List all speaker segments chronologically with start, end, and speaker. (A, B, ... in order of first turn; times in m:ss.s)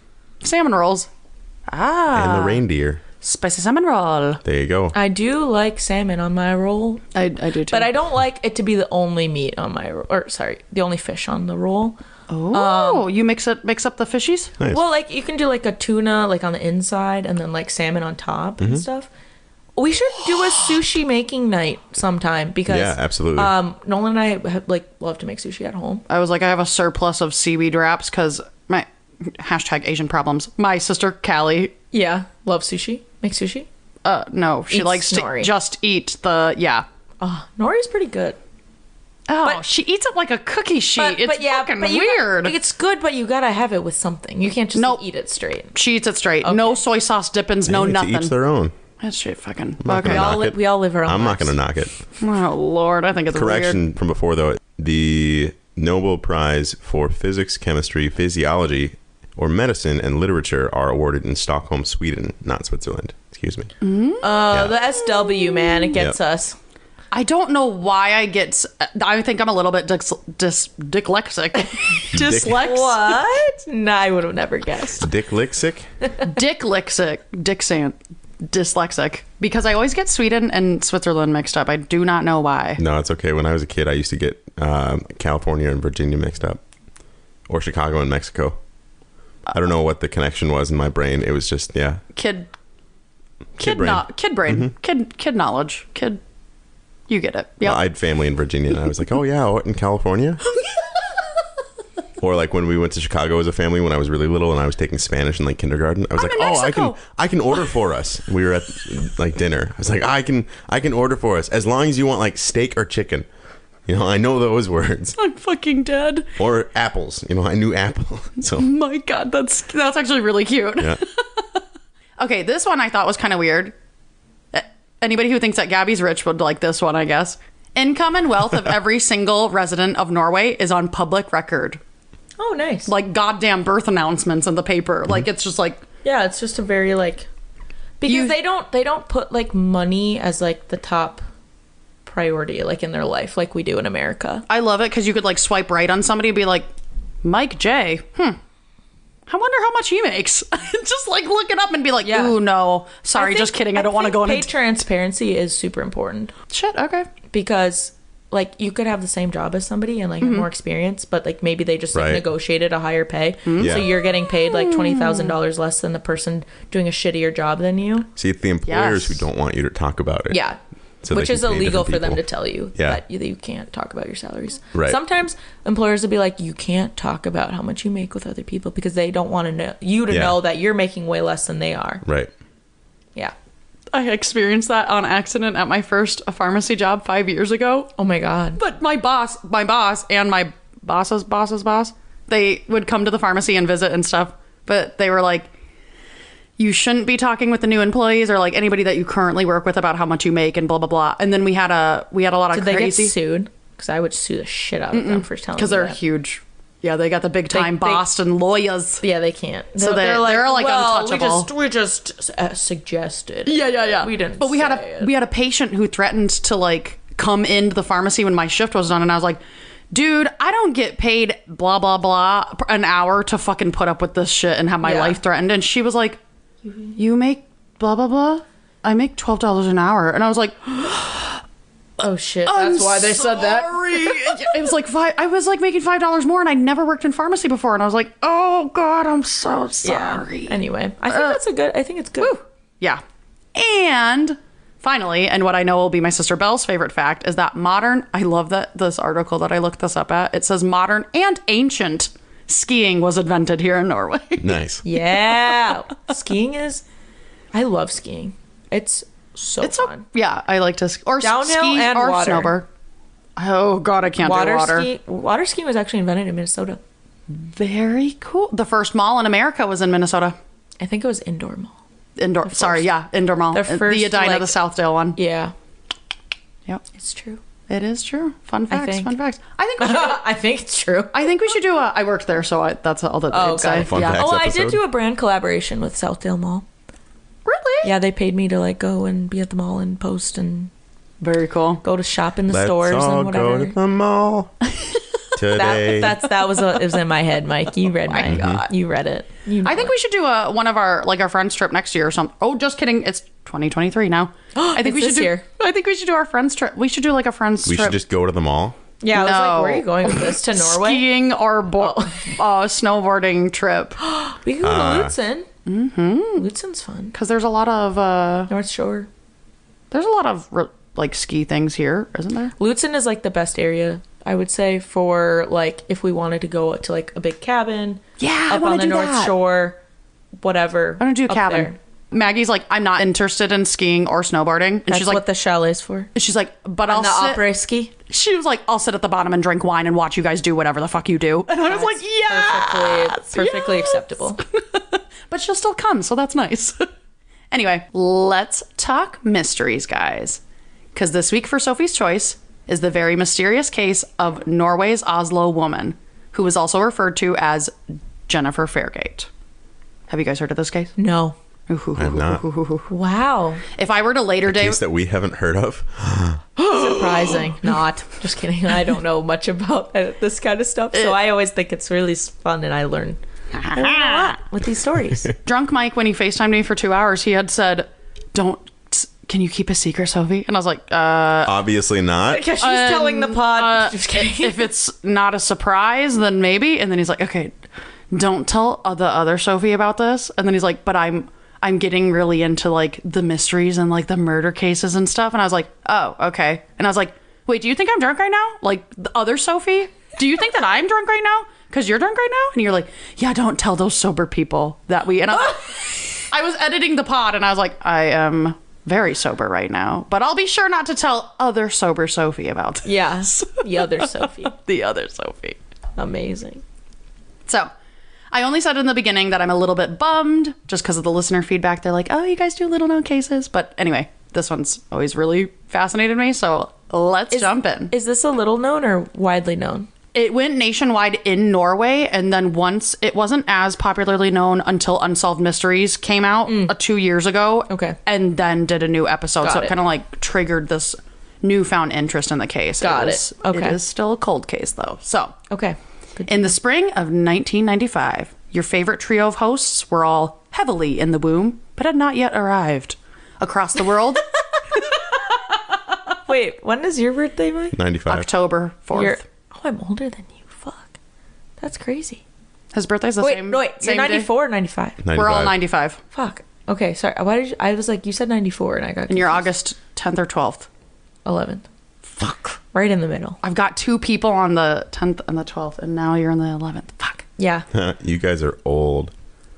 0:00.4-0:01.1 A
0:01.7-0:02.6 A
0:02.1-0:03.0 B
0:03.2-0:04.4 A
0:04.4-0:05.0 B
0:04.9-0:07.0 C
0:07.1-0:07.9 A
0:07.7-0:12.0 C
0:12.3-0:14.6 A
0:12.5-0:13.1 C
0:14.7-0:19.1 C
0:19.8-0:26.0 C
0:22.7-0:23.5 B
0:26.1-0:31.8 A
0:31.9-0:33.7 C
0:34.0-0:36.9 A
0:34.7-0:35.5 C
0:37.2-0:38.4 C
0:39.3-0:42.6 A
0:41.0-0:45.8 C
0:44.8-0:45.0 A
0:45.8-0:48.3 A
0:46.4-0:46.8 C
0:47.6-0:48.7 B
0:49.0-0:50.5 A
0:49.8-0:51.9 B
0:50.0-0:51.6 C
0:52.2-0:53.8 A
0:53.3-1:03.7 B
1:03.8-1:04.4 A
1:04.2-1:06.6 C
1:04.5-1:04.8 B
1:07.1-1:13.1 A
1:11.6-1:15.1 C
1:12.1-1:12.6 B
1:15.0-1:15.9 B
1:16.2-1:22.8 A
1:22.8-1:26.6 B
1:27.5-1:28.6 B
1:29.5-1:32.0 B
1:32.2-1:32.5 A
1:33.6-1:36.2 A
1:33.6-1:34.7 B
1:37.1-1:37.8 A
1:37.6-1:40.4 B
1:42.2-1:53.3 B
1:46.2-1:47.1 A
1:53.9-1:55.2 B
1:55.2-1:56.3 A
1:56.4-1:58.7 B
1:58.5-2:01.4 A
2:02.2-2:03.8 A
2:04.5-2:11.8 A
2:12.4-2:12.9 C
2:12.9-2:15.8 A
2:16.0-2:17.3 C
2:18.0-2:21.2 C
2:18.0-2:18.4 A
2:22.1-2:24.4 C
2:24.5-2:26.7 A
2:27.2-2:28.4 A
2:29.3-2:34.5 A
2:32.0-2:32.4 C
2:33.2-2:36.3 C
2:36.5-2:37.1 A
2:37.3-2:48.1 C
2:40.2-2:40.5 A
2:41.9-2:42.3 B
2:43.5-2:45.3 A
2:43.6-2:43.9 B
2:48.2-2:50.4 B
2:48.7-2:49.2 A
2:50.3-2:50.6 C
2:51.0-2:52.2 B
2:51.1-3:02.0 C
2:52.8-2:53.0 B
2:54.7-2:55.0 B
3:00.1-3:00.4 B
3:02.0-3:02.3 B
3:03.9-3:07.9 A
3:08.0-3:08.6 C
3:08.6-3:15.5 A
3:16.6-3:23.1 A
3:22.5-3:26.0 C
3:24.9-3:29.0 A
3:27.5-3:28.0 C
3:29.0-3:35.1 C
3:29.8-3:31.5 A
3:33.5-3:39.4 A
3:39.9-3:46.2 A
3:44.8-3:45.2 C
3:47.0-3:51.4 A
3:52.0-3:54.4 C
3:52.5-4:00.6 A
3:59.8-4:02.3 C
4:01.1-4:01.4 A
4:02.2-4:03.0 A
4:03.6-4:14.6 A
4:14.4-4:14.8 B
4:14.8-4:16.8 C
4:17.5-4:20.0 C
4:19.6-4:22.7 A
4:21.2-4:22.6 C
4:23.4-4:24.9 A
4:24.2-4:26.8 C
4:27.3-4:30.4 A
4:30.8-4:31.8 C
4:32.2-4:35.2 A
4:32.4-4:32.9 C
4:33.5-4:34.6 C
4:35.2-4:35.5 C
4:37.0-4:37.4 C
4:37.7-4:40.2 A
4:38.7-4:39.1 C
4:39.8-4:41.3 C
4:41.1-4:44.3 A
4:43.3-4:46.7 C
4:43.8-4:44.8 B
4:47.4-4:47.9 A
4:47.8-4:50.7 C
4:51.2-4:51.8 A
4:51.8-4:53.8 C
4:52.5-4:54.5 B
4:55.4-4:56.2 B
4:55.5-4:59.9 C
4:58.1-4:58.4 A
4:58.3-4:58.7 B
4:59.6-5:08.0 A
5:04.6-5:05.4 C
5:07.6-5:08.8 B
5:09.0-5:11.1 C
5:09.1-5:14.0 A
5:11.8-5:12.3 C
5:14.0-5:15.5 C
5:14.6-5:15.1 B
5:15.7-5:16.5 A
5:16.4-5:17.2 C
5:17.1-5:18.5 A
5:18.5-5:19.1 C
5:19.9-5:22.5 A
5:22.6-5:29.8 C
5:28.2-5:29.3 A
5:30.4-5:31.8 C
5:31.0-5:35.2 A
5:34.9-5:36.1 C
5:36.2-5:37.4 A
5:36.9-5:37.9 C
5:38.1-5:46.9 A
5:41.6-5:44.4 C
5:47.5-5:50.4 A
5:51.0-5:57.7 A
5:58.3-5:59.3 A
6:00.1-6:01.0 A
6:01.0-6:01.4 C
6:01.7-6:02.9 A
6:02.0-6:02.4 B
6:02.9-6:03.6 C
6:03.7-6:04.8 A
6:04.5-6:06.4 B
6:06.6-6:15.3 C
6:06.9-6:07.5 A
6:13.6-6:14.3 A
6:15.4-6:21.6 A
6:21.4-6:22.4 B
6:22.3-6:24.7 C
6:22.6-6:27.5 A
6:28.1-6:55.6 A
6:52.8-6:54.6 C
6:56.0-6:56.6 C
6:58.3-7:07.9 A
7:07.3-7:09.9 C
7:10.1-7:25.4 A
7:16.5-7:16.8 C
7:17.7-7:18.0 C
7:19.4-7:19.8 C
7:22.8-7:23.8 C
7:25.5-7:26.5 C
7:26.3-7:35.3 A
7:36.3-7:37.8 C
7:37.7-7:38.3 B
7:38.1-7:39.2 A
7:38.9-7:41.0 C
7:41.6-7:42.2 C
7:42.7-7:44.3 A
7:43.2-7:45.0 C
7:45.0-7:45.6 B
7:45.1-7:46.0 A
7:46.1-7:49.5 C
7:49.1-7:50.7 A
7:51.2-7:51.6 C
7:52.1-7:52.6 A
7:52.7-7:53.4 C
7:53.4-7:57.3 A
7:57.4-7:57.7 C
7:57.7-7:59.1 B